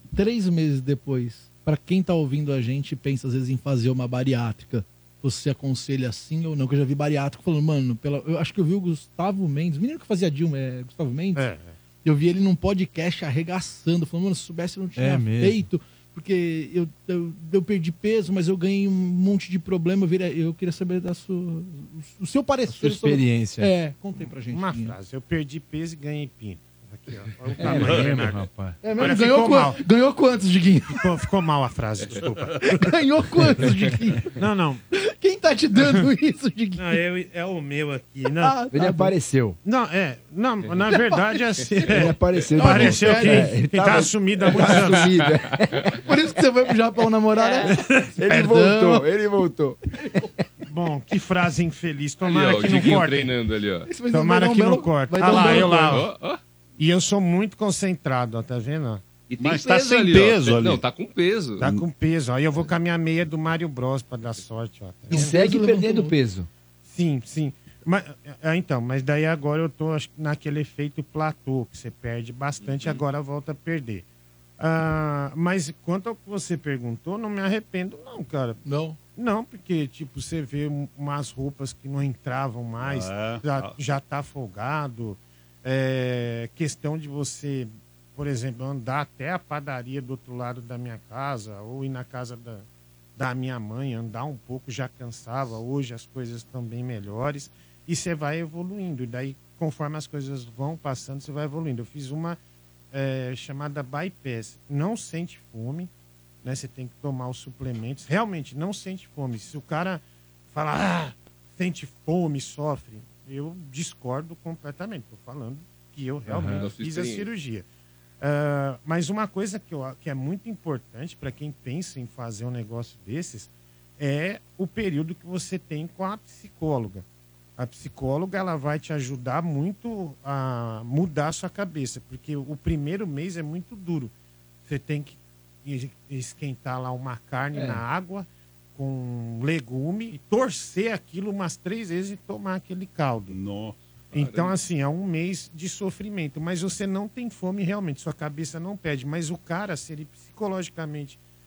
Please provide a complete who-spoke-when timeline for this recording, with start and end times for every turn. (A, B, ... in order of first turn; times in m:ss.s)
0:00.1-0:11.4 A
0:11.4-0:11.8 B
0:12.0-0:24.9 A
0:15.0-0:15.6 C
0:22.7-0:23.7 C
0:24.2-0:28.4 B
0:27.6-0:28.8 C
0:27.7-0:28.3 D
0:28.8-0:31.0 A
0:29.0-0:29.8 B
0:31.0-0:32.8 B
0:32.7-0:34.2 A
0:34.4-0:34.8 B
0:34.9-0:37.0 A
0:35.8-0:36.0 B
0:36.8-0:38.6 B
0:38.4-0:39.1 A
0:38.7-0:39.6 C
0:39.6-0:45.1 B
0:40.9-0:41.6 A
0:41.9-0:45.8 C
0:42.6-0:43.5 A
0:46.0-0:47.7 A
0:47.4-0:50.3 C
0:47.7-0:48.1 B
0:48.3-0:49.1 A
0:50.6-0:53.3 B
0:52.2-0:53.9 E
0:53.9-0:56.0 A
0:54.1-0:56.1 B
0:54.5-0:55.9 C
0:55.3-0:56.4 E
0:56.8-0:59.0 B
0:59.3-1:01.6 E
0:59.4-1:00.8 D
1:01.6-1:01.8 D
1:01.6-1:05.3 B
1:05.1-1:06.1 A
1:05.1-1:06.5 C
1:06.8-1:14.0 B
1:12.6-1:13.0 E
1:14.6-1:18.6 B
1:18.6-1:19.0 A
1:19.1-1:42.4 B
1:22.8-1:23.7 D
1:42.9-1:45.9 B
1:46.4-1:57.6 B
1:56.3-1:56.7 C
1:56.6-1:57.3 E
1:58.2-2:07.0 B
2:07.6-2:14.1 B
2:14.6-2:23.4 B
2:17.5-2:17.8 C
2:23.3-2:23.8 D
2:24.1-2:24.6 E
2:24.1-2:31.2 B